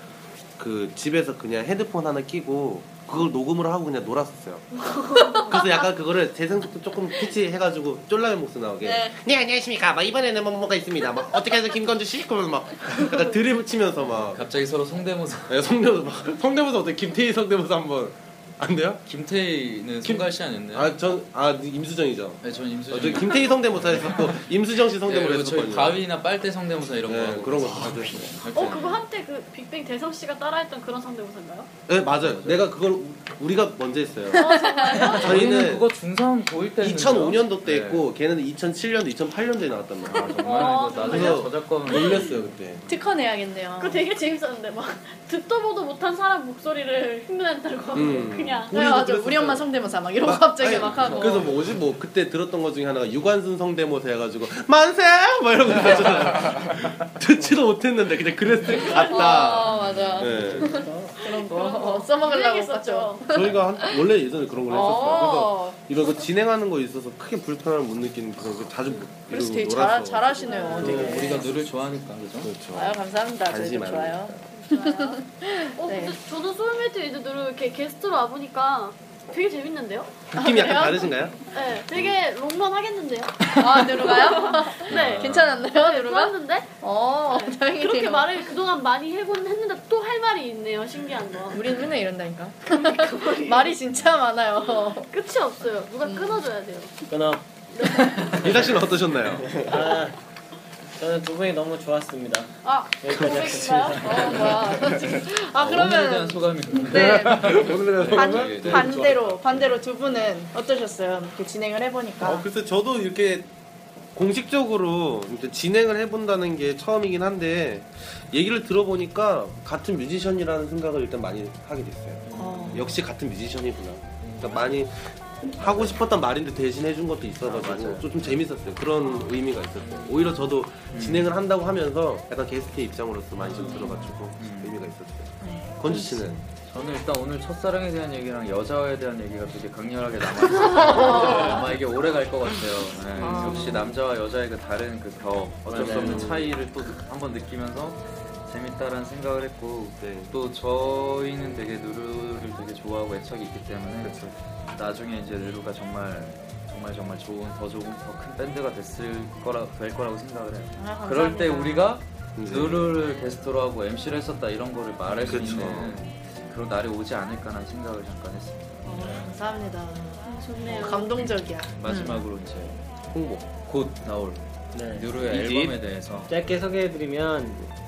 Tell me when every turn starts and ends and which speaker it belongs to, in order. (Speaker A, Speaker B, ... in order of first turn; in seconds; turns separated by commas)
Speaker A: 0.6-4.6, Speaker B: 4.8-5.5, Speaker C: 5.1-5.8, Speaker A: 5.4-14.4, Speaker C: 8.8-9.2, Speaker D: 14.0-15.6, Speaker A: 15.5-19.0, Speaker D: 19.1-21.0, Speaker A: 20.0-26.0, Speaker D: 22.4-24.3, Speaker D: 25.0-29.0, Speaker A: 27.1-28.4, Speaker B: 28.5-31.7, Speaker A: 31.9-34.4, Speaker D: 32.1-32.6, Speaker C: 34.3-35.3, Speaker B: 34.3-35.5, Speaker A: 35.1-35.9, Speaker D: 35.2-38.0, Speaker A: 36.8-42.8, Speaker D: 40.1-42.5, Speaker B: 40.4-41.4, Speaker C: 40.5-41.4, Speaker C: 42.9-44.0, Speaker B: 43.8-48.7, Speaker A: 47.9-49.7, Speaker C: 48.7-51.5, Speaker A: 50.2-60.9, Speaker B: 58.7-59.4, Speaker C: 58.8-64.1, Speaker D: 59.6-60.7, Speaker E: 60.6-60.9, Speaker B: 61.2-63.2, Speaker A: 63.3-71.4, Speaker C: 64.7-65.8, Speaker C: 69.3-71.7, Speaker B: 70.4-71.3, Speaker D: 70.8-72.5, Speaker A: 72.4-74.4, Speaker C: 72.7-76.1, Speaker B: 74.5-75.2, Speaker B: 75.7-80.3, Speaker A: 80.3-81.4, Speaker C: 80.3-81.1, Speaker B: 81.5-86.7, Speaker C: 83.5-88.4, Speaker D: 84.9-85.7, Speaker B: 87.3-91.6, Speaker C: 91.5-95.1, Speaker B: 92.7-93.8, Speaker B: 94.6-97.0, Speaker C: 96.0-96.4, Speaker E: 97.1-97.4, Speaker B: 97.7-98.7, Speaker A: 98.4-99.6, Speaker E: 99.6-100.2, Speaker E: 101.0-104.3, Speaker B: 102.6-104.7, Speaker C: 103.2-112.5, Speaker D: 105.5-109.8, Speaker A: 106.9-109.3, Speaker A: 112.2-113.5, Speaker A: 114.1-136.4, Speaker C: 122.3-122.9, Speaker E: 122.4-122.8, Speaker D: 125.6-126.0, Speaker D: 127.4-128.4, Speaker D: 130.9-131.3, Speaker D: 133.4-134.8, Speaker C: 135.4-136.4, Speaker D: 136.6-154.2, Speaker C: 140.8-141.6, Speaker C: 143.2-143.9, Speaker A: 143.2-143.5, Speaker A: 145.7-146.6, Speaker A: 154.0-154.3, Speaker D: 154.7-169.3, Speaker C: 160.8-162.0, Speaker A: 162.3-162.9, Speaker A: 165.2-166.0, Speaker C: 168.8-172.2, Speaker B: 170.2-171.1, Speaker D: 171.2-172.8, Speaker A: 173.1-173.5, Speaker D: 173.6-176.3, Speaker E: 174.7-175.7, Speaker E: 176.3-177.6